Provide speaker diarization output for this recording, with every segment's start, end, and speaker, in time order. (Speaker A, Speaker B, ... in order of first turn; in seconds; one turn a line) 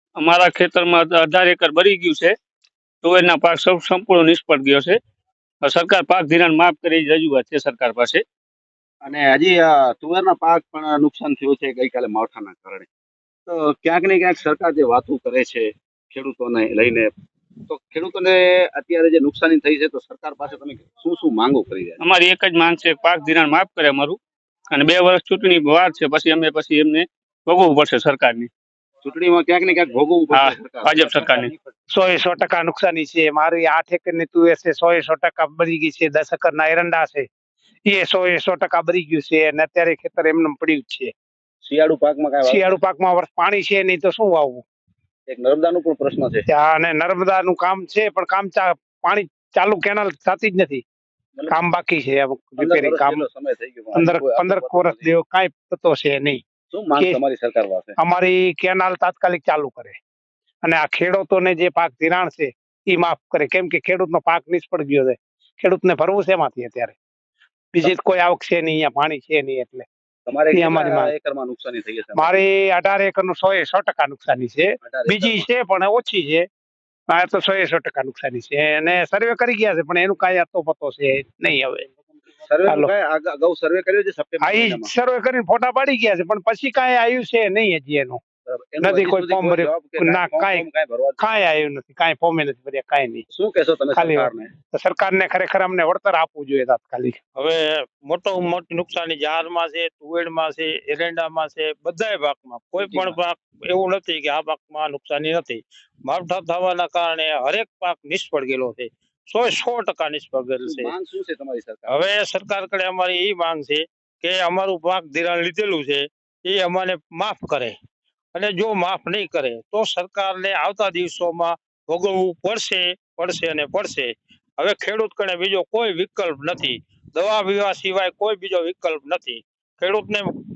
Speaker A: 0.2-2.3
Speaker A: 3.0-5.0
Speaker A: 5.6-8.2
Speaker B: 9.0-12.9
Speaker B: 13.5-17.1
Speaker B: 17.7-22.0
Speaker A: 22.0-24.2
Speaker A: 24.7-28.5
Speaker B: 29.0-31.6
Speaker A: 30.3-31.5
Speaker C: 31.9-37.3
Speaker C: 37.9-41.1
Speaker B: 41.6-42.8
Speaker C: 42.4-44.6
Speaker B: 45.3-46.5
Speaker C: 46.5-50.8
Speaker C: 51.5-53.2
Speaker B: 52.6-55.1
Speaker C: 53.9-56.4
Speaker B: 56.7-57.9
Speaker C: 58.0-60.0
Speaker C: 60.6-67.0
Speaker C: 67.7-69.8
Speaker B: 70.2-72.3
Speaker C: 70.5-71.1
Speaker C: 72.1-76.5
Speaker B: 74.8-75.4
Speaker C: 77.1-81.9
Speaker B: 82.5-84.9
Speaker C: 82.7-82.9
Speaker C: 84.4-88.2
Speaker B: 88.5-91.2
Speaker C: 88.8-90.7
Speaker C: 91.2-93.2
Speaker B: 93.3-94.5
Speaker C: 93.9-97.2
Speaker D: 97.3-110.9
Speaker B: 102.8-103.2
Speaker B: 110.6-112.0
Speaker D: 111.9-117.7
Speaker D: 118.3-130.3